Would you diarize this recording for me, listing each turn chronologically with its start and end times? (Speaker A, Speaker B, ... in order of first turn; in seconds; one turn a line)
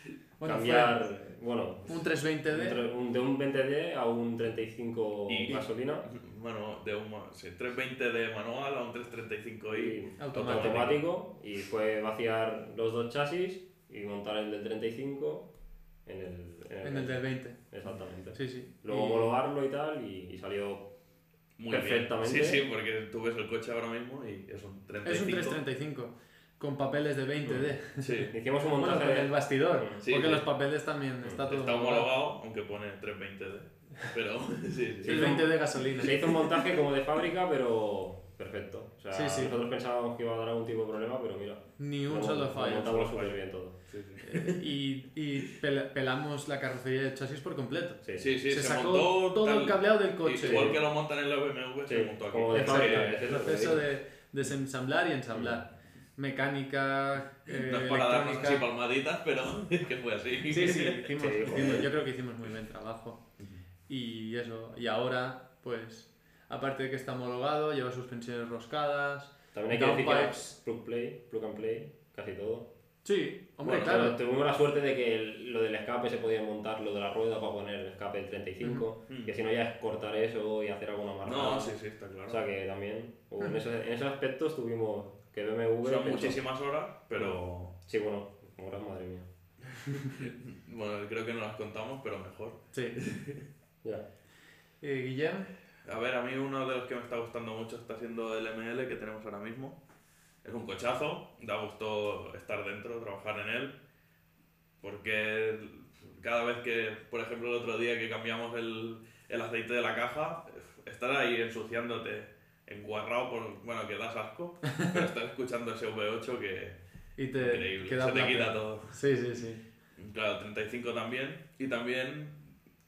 Speaker A: 0.4-1.0
Speaker B: 0.4-6.1
Speaker A: 1.9-2.8
Speaker C: 5.3-11.0
Speaker B: 9.7-15.5
Speaker A: 10.2-10.9
Speaker B: 16.1-20.9
Speaker A: 16.8-17.6
Speaker A: 18.3-19.4
Speaker C: 21.6-25.6
Speaker B: 21.7-22.6
Speaker A: 25.0-32.1
Speaker C: 28.0-28.3
Speaker B: 28.3-30.0
Speaker C: 30.0-30.4
Speaker C: 31.5-35.3
Speaker B: 35.0-43.8
Speaker A: 35.0-36.4
Speaker A: 39.1-39.5
Speaker A: 41.8-43.3
Speaker C: 43.9-44.6
Speaker A: 44.2-50.8
Speaker B: 48.0-48.3
Speaker C: 48.1-53.1
Speaker B: 50.4-50.8
Speaker B: 51.9-53.8
Speaker A: 52.5-58.6
Speaker B: 55.3-55.6
Speaker C: 57.5-61.1
Speaker A: 60.5-63.2
Speaker B: 61.2-61.9
Speaker A: 63.9-70.5
Speaker B: 69.5-72.7
Speaker A: 73.0-74.2
Speaker C: 73.6-74.0
Speaker B: 73.8-86.4
Speaker C: 79.1-79.3
Speaker C: 81.2-82.4
Speaker C: 85.8-87.7
Speaker B: 87.2-89.3
Speaker C: 89.9-93.4
Speaker A: 92.7-93.0
Speaker A: 94.8-95.5
Speaker C: 95.8-99.8
Speaker C: 100.4-103.7
Speaker C: 104.8-116.8
Speaker A: 114.6-115.0
Speaker A: 117.2-119.6
Speaker C: 117.4-119.0
Speaker C: 120.0-122.4